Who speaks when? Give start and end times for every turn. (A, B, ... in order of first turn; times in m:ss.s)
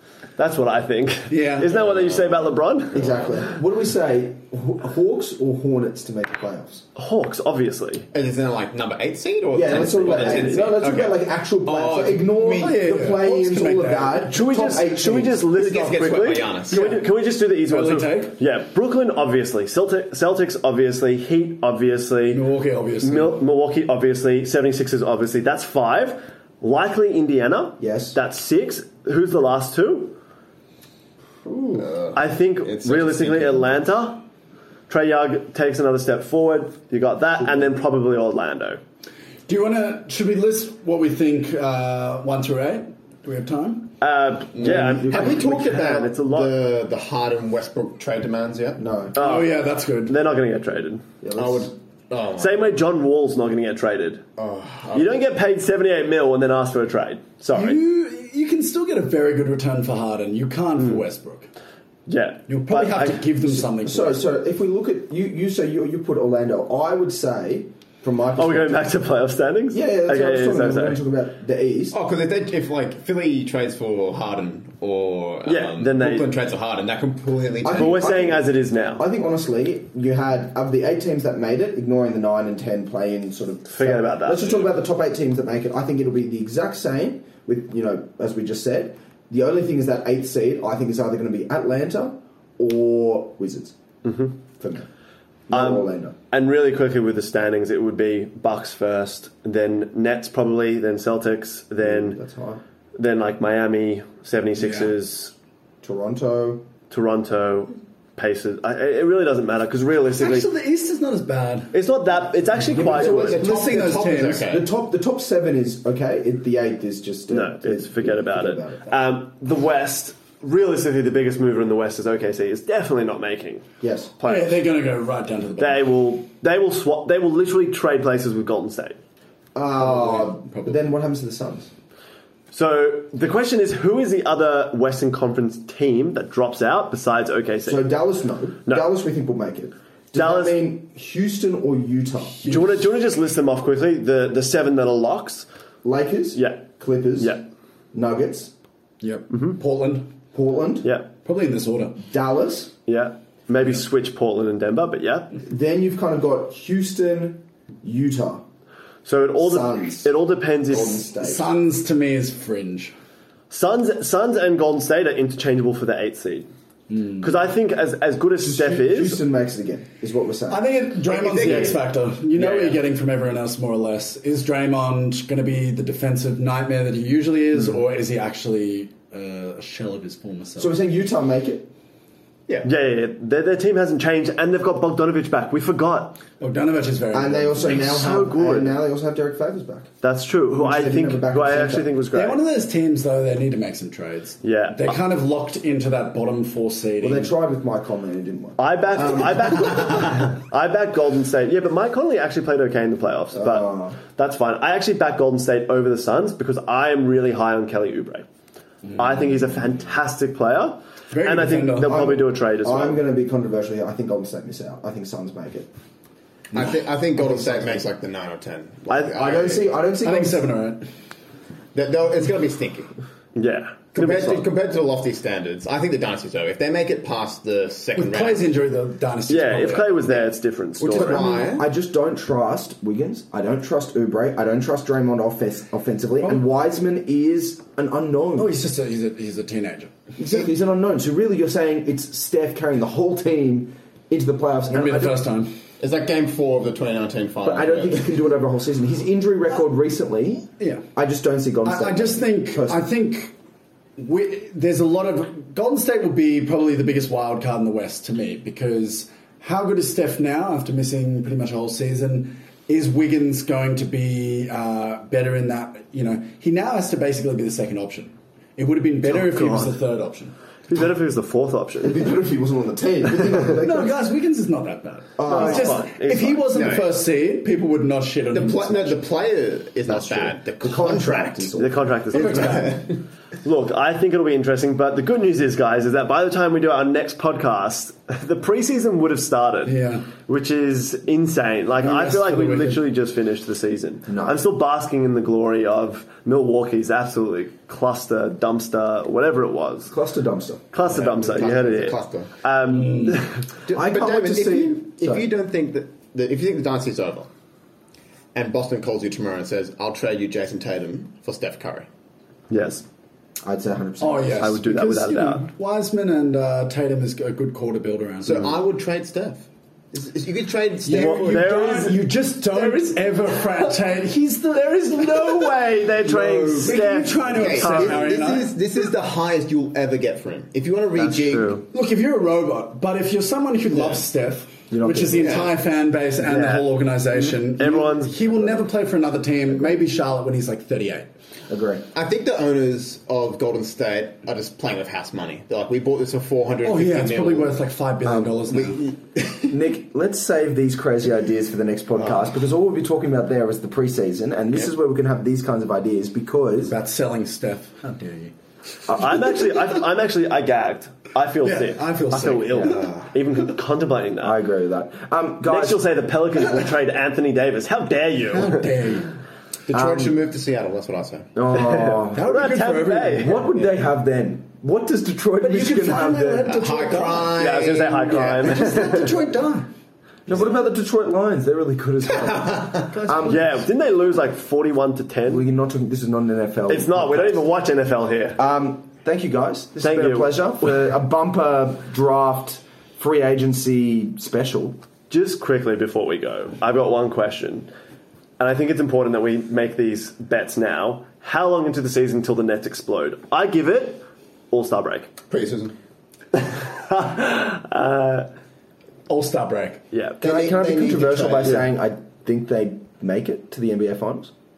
0:00.4-0:03.1 A
0:01.3-0:01.7 B
0:01.7-0:02.4 C
0:02.9-0:06.8 D
0:02.9-0:03.3 C
0:07.0-0:08.1 A
0:08.1-0:11.0 C
0:09.5-0:15.4 D
0:10.1-0:10.8 A
0:10.8-0:14.3 B
0:11.7-0:12.7 C
0:14.3-0:22.4 A
0:15.5-0:17.0 C
0:16.7-0:17.1 B
0:17.7-0:18.4 B
0:22.3-0:23.5 B
0:23.0-0:30.2 A
0:27.8-0:28.2 D
0:31.4-0:31.8 D
0:31.8-0:33.8 C
0:32.1-0:34.2 A
0:34.9-0:38.8 A
0:37.4-0:37.7 D
0:39.5-0:44.0 B
0:44.0-0:46.6 A
0:44.5-0:48.8 C
0:44.6-0:45.6 D
0:48.8-0:49.2 D
0:49.2-0:51.0 A
0:49.2-0:50.2 B
0:51.2-0:51.7 D
0:51.4-0:52.8 C
0:52.4-0:54.2 A
0:54.4-0:55.3 C
0:54.9-0:57.8 A
0:57.5-1:01.5 B
1:00.8-1:01.0 A
1:02.1-1:03.3 A
1:02.5-1:04.2 B
1:03.8-1:09.0 D
1:08.4-1:11.0 A
1:09.7-1:12.0 D
1:11.9-1:18.1 C
1:15.5-1:16.3 A
1:17.6-1:33.8 D
1:17.7-1:19.0 A
1:23.7-1:24.6 A
1:34.0-1:34.4 A
1:34.6-1:34.9 D
1:35.5-1:36.2 D
1:35.5-1:42.2 A
1:41.8-1:42.6 D
1:43.0-1:45.3 A
1:44.6-1:44.9 B
1:45.8-1:46.7 D
1:46.9-1:50.5 A
1:50.2-1:51.8 B
1:51.7-1:53.4 A
1:52.7-1:53.5 D
1:52.8-1:54.7 C
1:52.8-1:54.5 B
1:54.4-1:59.0 D
1:57.3-2:03.6 A
2:03.8-2:04.1 D
2:04.2-2:04.6 A
2:04.2-2:05.9 B
2:05.6-2:09.0 A
2:09.6-2:11.7 D
2:09.8-2:10.8 B
2:12.5-2:17.9 A
2:17.7-2:22.4 D
2:20.1-2:20.6 A
2:22.4-2:22.8 B
2:22.4-2:25.5 A
2:25.8-2:27.4 D
2:26.4-2:27.4 A
2:27.9-2:28.5 D
2:29.0-2:30.1 B
2:29.3-2:29.6 A
2:30.3-2:30.9 D
2:30.8-2:31.1 A
2:31.2-2:32.0 B
2:32.0-2:32.7 D
2:32.9-2:35.4 A
2:35.4-2:38.4 D
2:39.0-2:41.1 A
2:39.4-2:40.2 D
2:40.7-2:41.5 D
2:41.2-2:43.0 B
2:43.5-2:46.5 A
2:46.9-2:47.3 B
2:47.2-2:49.2 A
2:48.4-2:50.6 D
2:50.5-3:00.8 B
2:51.1-2:52.8 C
3:00.6-3:01.7 D
3:02.6-3:06.2 A
3:06.4-3:08.1 B
3:07.1-3:09.9 D
3:07.7-3:08.8 A
3:10.0-3:12.4 A
3:10.5-3:11.9 D
3:12.1-3:17.3 B
3:14.4-3:15.0 A
3:17.0-3:20.1 D
3:18.6-3:28.3 A
3:23.3-3:24.0 D
3:29.0-3:33.0 A
3:31.1-3:32.1 B
3:31.8-3:35.7 D
3:36.5-3:39.7 C
3:37.2-3:37.9 D
3:38.9-3:39.4 A
3:39.1-3:40.5 D
3:40.0-3:40.8 B
3:41.7-3:42.9 C
3:43.4-3:44.5 A
3:43.9-3:48.5 C
3:48.0-3:50.2 B
3:49.3-3:51.3 A
3:50.8-3:51.7 C
3:50.9-3:58.5 D
3:58.4-3:59.9 B
4:00.2-4:05.2 D
4:04.7-4:05.5 B
4:05.8-4:08.1 C
4:07.4-4:12.8 D
4:10.6-4:10.8 B
4:11.6-4:13.3 B
4:14.0-4:30.3 B
4:29.0-4:29.8 A
4:30.7-4:32.0 A
4:31.8-4:34.0 D
4:33.5-4:39.0 B
4:35.2-4:35.9 D
4:35.2-4:36.6 A
4:36.5-4:37.0 C
4:38.3-4:41.5 C
4:39.9-4:42.4 D
4:41.6-4:42.9 A
4:42.1-4:42.9 B
4:42.5-4:42.9 C
4:43.4-4:59.9 A
4:49.7-4:50.1 B
4:51.8-4:52.8 B
4:54.1-4:54.4 D
4:59.9-5:00.6 D
5:00.7-5:03.4 A
5:00.9-5:02.3 C
5:02.7-5:03.2 B
5:03.7-5:07.3 C
5:03.7-5:05.3 D
5:08.3-5:11.9 C
5:12.5-5:12.8 A
5:13.4-5:14.6 D
5:14.0-5:18.6 B
5:14.4-5:15.5 A
5:18.2-5:22.0 C
5:20.8-5:28.5 B
5:20.9-5:22.8 A
5:25.0-5:28.1 A
5:27.3-5:31.6 C
5:31.0-5:31.6 A
5:31.7-5:41.1 B
5:33.7-5:34.0 C
5:34.7-5:35.5 D
5:35.2-5:35.6 C
5:36.2-5:38.6 A
5:41.5-5:41.8 D
5:41.9-5:47.6 C
5:46.6-5:48.9 B
5:48.0-5:48.3 D
5:48.5-5:49.5 C
5:49.5-5:56.8 D
5:52.0-5:52.3 C
5:56.7-5:58.3 B
5:58.9-6:04.4 A
6:01.4-6:03.1 B
6:02.5-6:02.8 D
6:04.2-6:05.9 D
6:05.4-6:08.7 A
6:08.3-6:09.1 B
6:09.7-6:11.3 C
6:09.7-6:10.1 D
6:11.4-6:12.3 D
6:11.6-6:13.5 A
6:12.1-6:13.4 B
6:13.2-6:16.6 D
6:15.4-6:19.7 B
6:16.4-6:18.4 C
6:17.4-6:19.2 A
6:20.3-6:23.4 D
6:22.3-6:22.8 C
6:22.9-6:23.4 B
6:23.2-6:25.4 A
6:25.3-6:27.4 D
6:26.7-6:28.4 A
6:28.4-6:34.8 D
6:29.8-6:30.7 A
6:35.1-6:37.7 A
6:38.4-6:45.1 A
6:45.3-6:45.8 C
6:46.3-6:48.3 A
6:49.1-6:49.8 B
6:49.9-6:50.2 A
6:50.2-6:51.6 C
6:50.2-6:54.3 D